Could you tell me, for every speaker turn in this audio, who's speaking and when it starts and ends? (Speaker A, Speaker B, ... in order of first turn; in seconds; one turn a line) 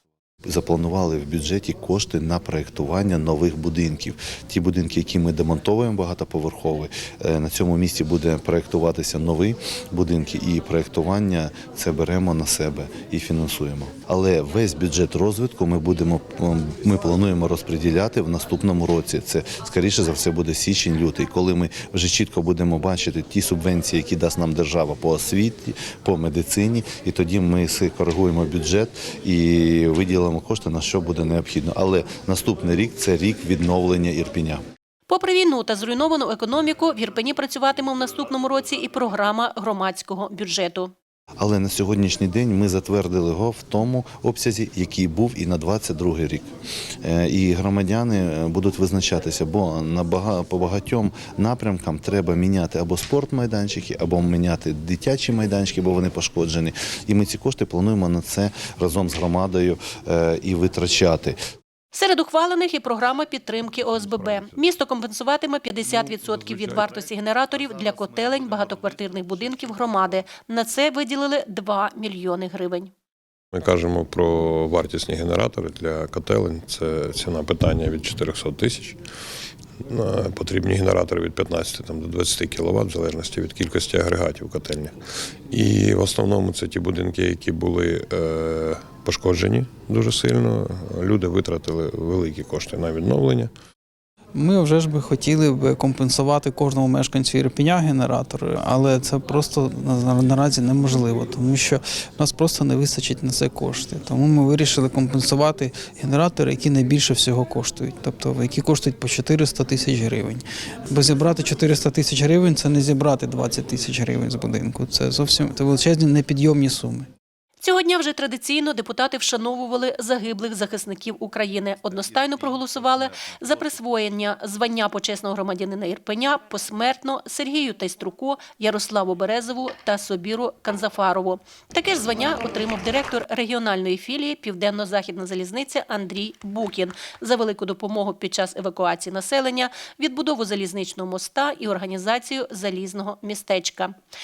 Speaker A: 0.5-34.6
Speaker B: 35.1-40.9
Speaker A: 41.4-46.5
Speaker A: 47.0-61.4
Speaker B: 61.9-72.9
Speaker C: 64.0-64.5
Speaker C: 73.5-79.0
Speaker C: 79.9-85.0
Speaker C: 85.5-93.5
Speaker D: 94.3-117.1
Speaker B: 117.6-143.9